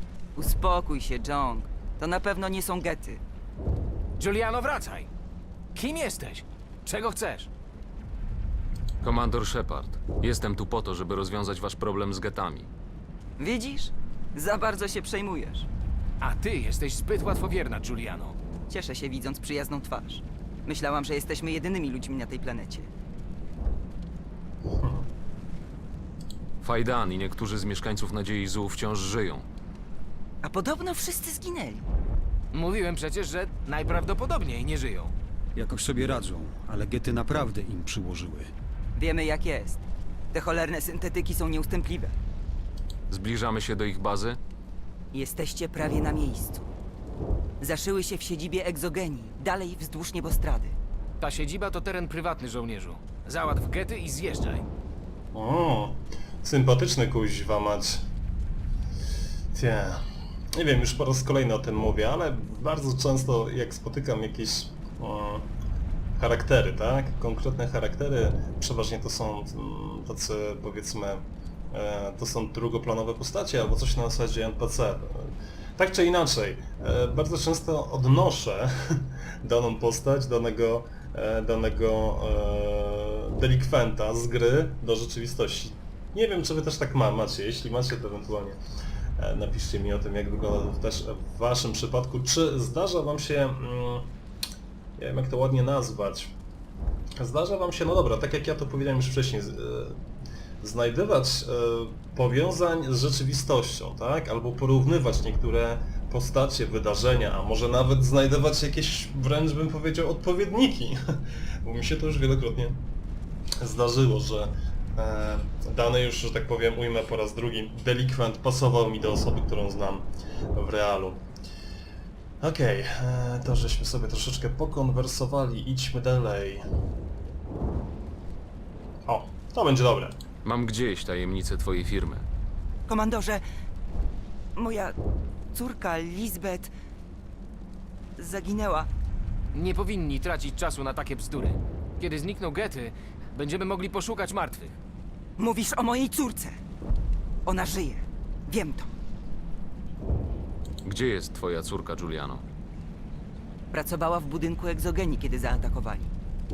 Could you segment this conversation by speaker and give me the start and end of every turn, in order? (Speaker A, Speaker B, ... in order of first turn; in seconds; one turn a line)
Speaker A: 0.4-3.2
Speaker B: 4.2-5.1
Speaker B: 5.7-7.5
Speaker C: 9.0-12.7
Speaker A: 13.4-15.7
Speaker B: 16.2-18.4
Speaker A: 18.7-22.9
Speaker D: 24.8-25.1
Speaker C: 26.6-29.5
Speaker A: 30.4-31.9
Speaker B: 32.5-35.1
Speaker E: 35.6-38.5
Speaker A: 39.0-42.1
Speaker C: 43.1-44.4
Speaker A: 45.1-46.7
Speaker A: 47.6-50.8
Speaker B: 51.2-54.7
Speaker D: 55.3-58.1
Speaker D: 59.5-65.5
Speaker D: 66.2-88.6
Speaker D: 89.2-94.2
Speaker D: 95.0-96.4
Speaker D: 97.2-100.0
Speaker D: 100.6-112.9
Speaker D: 113.6-121.3
Speaker D: 122.4-126.6
Speaker D: 129.1-130.2
Speaker C: 130.4-132.3
Speaker A: 132.9-133.4
Speaker A: 134.6-134.9
Speaker A: 135.5-136.7
Speaker A: 138.2-138.9
Speaker B: 139.5-144.8
Speaker A: 145.4-146.6
Speaker A: 147.4-148.9
Speaker C: 150.8-152.4
Speaker A: 153.7-156.1